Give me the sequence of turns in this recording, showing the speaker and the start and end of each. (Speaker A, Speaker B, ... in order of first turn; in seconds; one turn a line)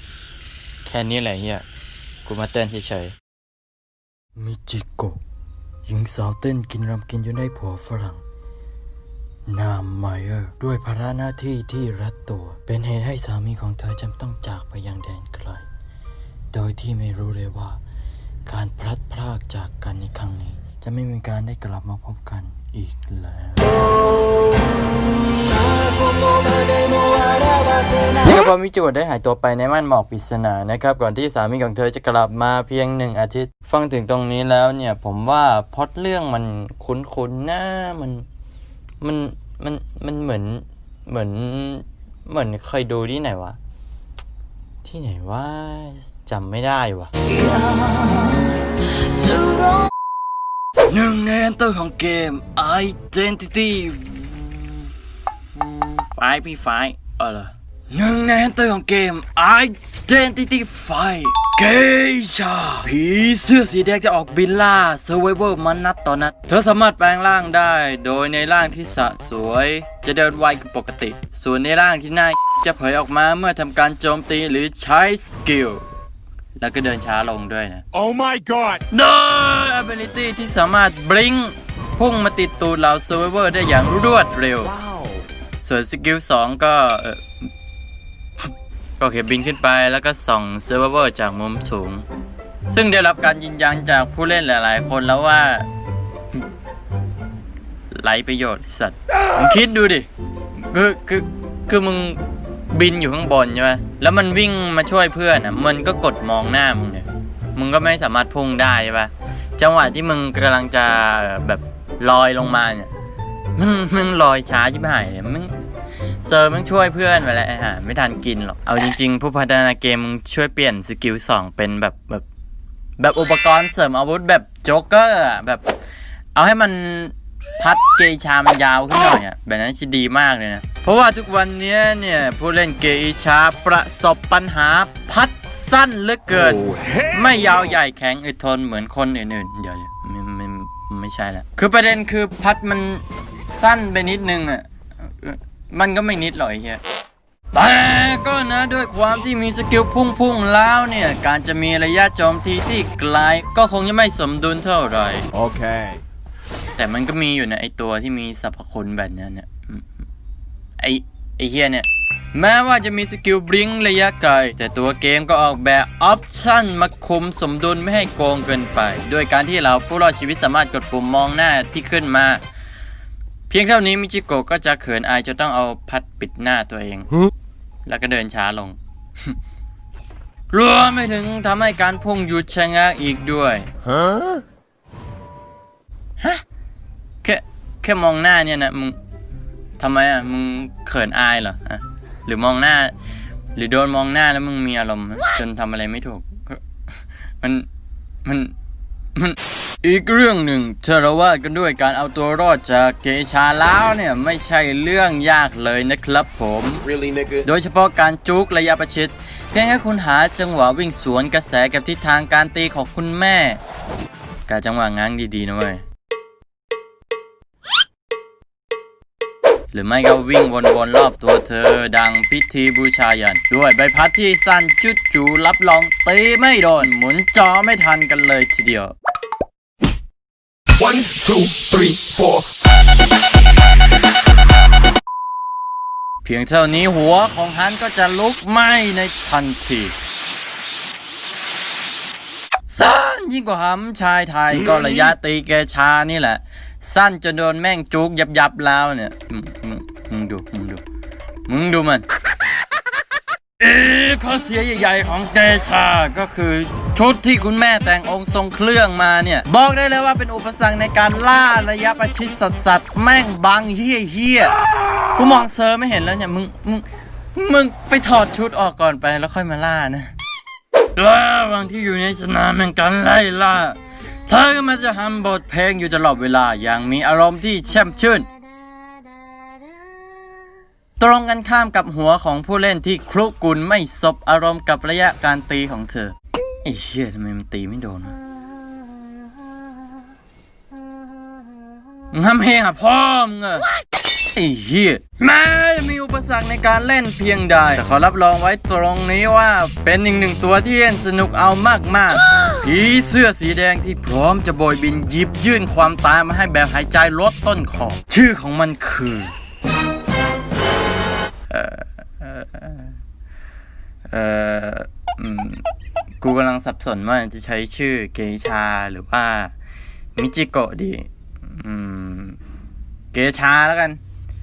Speaker A: 0.8-1.6
Speaker A: 2.2-3.1
Speaker A: 4.3-5.2
Speaker A: 5.8-8.2
Speaker A: 9.5-15.7
Speaker A: 16.5-17.8
Speaker A: 18.4-23.9
Speaker B: 25.4-28.2
Speaker A: 28.2-38.2
Speaker A: 39.0-43.6
Speaker A: 44.8-47.3
Speaker B: 47.6-47.9
Speaker A: 50.9-54.9
Speaker A: 55.5-75.8
Speaker A: 76.6-77.8
Speaker B: 77.9-78.8
Speaker A: 78.9-84.8
Speaker B: 84.8-85.2
Speaker A: 85.6-87.5
Speaker A: 88.4-92.0
Speaker A: 92.7-95.7
Speaker A: 97.9-100.1
Speaker A: 100.6-112.9
Speaker A: 113.5-115.6
Speaker A: 116.2-122.2
Speaker A: 123.0-125.7
Speaker A: 126.3-146.8
Speaker A: 147.5-155.3
Speaker B: 155.3-156.0
Speaker A: 156.8-160.0
Speaker A: 160.8-172.4
Speaker A: 173.5-177.1
Speaker A: 177.8-179.3
Speaker A: 180.5-183.7
Speaker A: 187.2-189.0
Speaker A: 189.8-192.9
Speaker A: 193.6-196.6
Speaker A: 197.4-197.7
Speaker A: 198.2-198.5
Speaker A: 199.1-206.9
Speaker B: 206.9-207.4
Speaker A: 207.4-213.6
Speaker A: 214.5-215.8
Speaker A: 219.7-228.9
Speaker B: 230.7-232.5
Speaker A: 236.2-239.9
Speaker A: 242.7-250.8
Speaker A: 251.5-252.0
Speaker A: 253.6-264.6
Speaker A: 265.1-270.1
Speaker A: 270.9-278.3
Speaker A: 281.0-288.2
Speaker A: 292.1-293.7
Speaker A: 294.3-309.3
Speaker A: 311.5-312.9
Speaker A: 314.1-315.6
Speaker A: 316.2-319.5
Speaker A: 320.1-322.4
Speaker A: 323.1-324.0